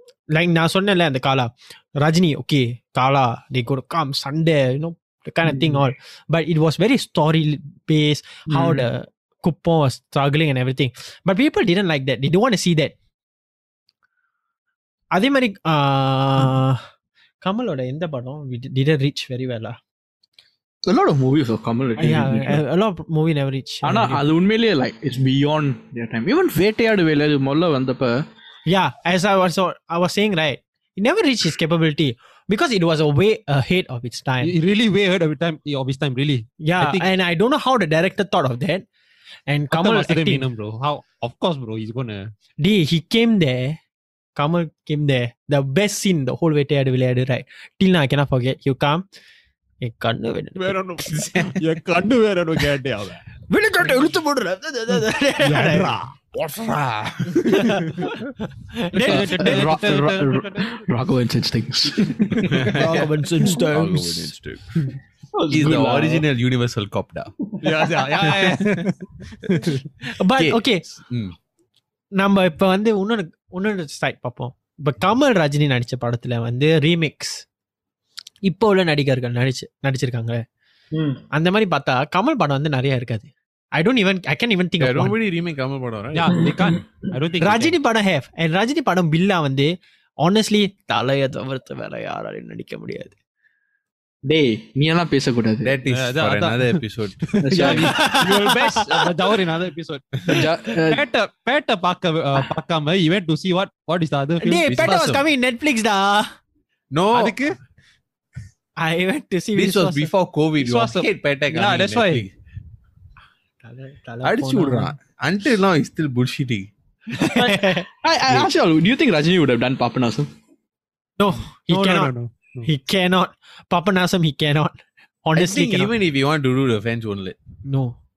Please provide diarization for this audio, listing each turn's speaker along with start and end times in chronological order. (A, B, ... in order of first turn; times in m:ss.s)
0:00.3-0:12.9 A
0:05.5-0:05.8 B
0:08.5-0:08.8 B
0:15.1-0:16.8 A
0:17.4-0:19.8 A
0:20.9-0:22.6 B
0:22.0-0:24.2 A
0:23.8-0:28.3 B
0:28.6-0:34.5 A
0:34.4-0:37.1 C
0:36.6-0:38.8 A
0:39.5-0:40.4 A
0:39.7-0:42.3 C
0:42.6-0:43.8 A
0:44.4-0:49.0 A
0:49.8-0:50.8 A
0:50.6-0:53.2 C
0:51.1-0:51.6 D
0:53.5-0:55.9 A
0:55.4-0:56.1 C
0:56.3-0:57.8 D
0:57.4-0:58.1 C
0:57.5-0:59.7 A
0:59.0-1:00.9 C
0:59.1-1:02.7 B
1:02.3-1:02.6 C
1:02.4-1:04.6 D
1:02.7-1:04.3 A
1:05.3-1:06.2 B
1:05.5-1:07.3 D
1:07.6-1:09.3 C
1:08.2-1:08.9 D
1:09.4-1:11.4 D
1:10.1-1:10.8 A
1:12.1-1:17.4 A
1:18.4-1:20.4 A
1:20.9-1:21.2 B
1:21.3-1:25.1 A
1:24.8-1:26.4 D
1:26.1-1:27.8 C
1:26.3-1:26.8 B
1:27.4-1:33.1 A
1:34.2-1:35.7 B
1:35.6-1:37.8 D
1:35.9-1:44.9 C
1:37.4-1:38.0 B
1:37.7-1:39.2 A
1:40.3-1:41.0 B
1:44.4-1:46.3 A
1:44.7-1:45.2 D
1:46.9-1:47.4 D
1:47.1-1:47.5 C
1:48.8-1:50.1 A
1:49.5-1:52.3 D
1:50.6-1:52.2 C
1:53.6-1:54.9 A
1:54.2-1:56.7 D
1:57.2-1:57.9 A
1:57.3-2:00.3 B
2:01.2-2:02.1 A
2:01.7-2:02.7 C
2:02.6-2:05.9 A
2:05.4-2:07.4 D
2:07.7-2:08.0 A